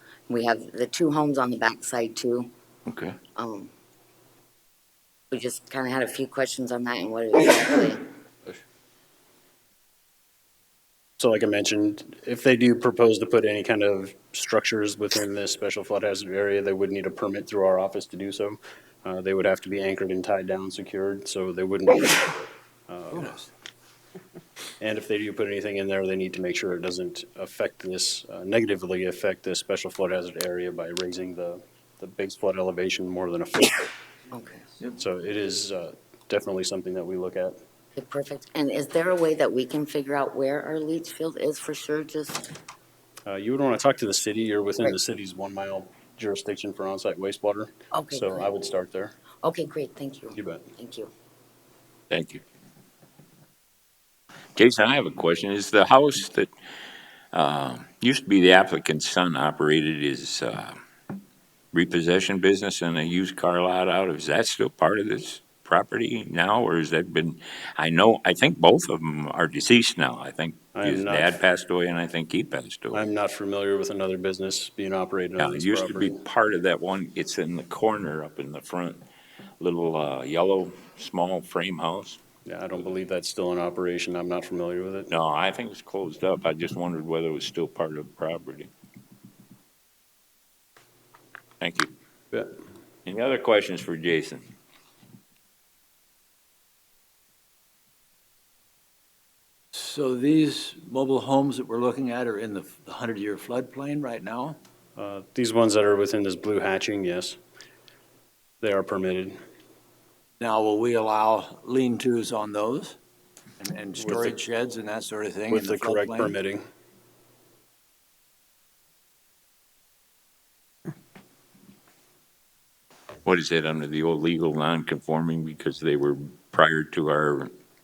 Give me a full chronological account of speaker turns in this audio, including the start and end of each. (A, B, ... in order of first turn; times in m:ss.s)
0:00.3-0:02.5 A
0:02.9-0:03.2 B
0:03.4-0:03.7 A
0:05.3-0:08.1 A
0:11.2-0:22.4 C
0:22.9-0:23.3 C
0:23.1-0:23.5 D
0:24.8-0:33.9 C
0:34.3-0:34.7 A
0:35.0-0:37.6 C
0:38.0-0:42.5 A
0:43.3-0:49.1 C
0:47.9-0:48.5 A
0:49.4-0:51.1 A
0:50.4-0:50.6 C
0:52.1-0:52.4 B
0:54.5-0:56.5 B
0:57.3-1:00.8 B
1:01.7-1:13.0 B
1:10.7-1:11.3 C
1:12.9-1:16.2 C
1:15.4-1:19.0 B
1:19.6-1:22.2 B
1:22.4-1:25.1 C
1:25.1-1:28.7 B
1:31.6-1:31.9 B
1:33.0-1:34.4 B
1:39.7-1:44.6 D
1:45.0-1:47.4 C
1:48.6-1:49.4 C
1:50.4-1:53.0 D
1:53.6-1:56.4 D
1:54.0-1:54.4 C
1:55.5-1:56.6 C
2:03.2-2:07.5 B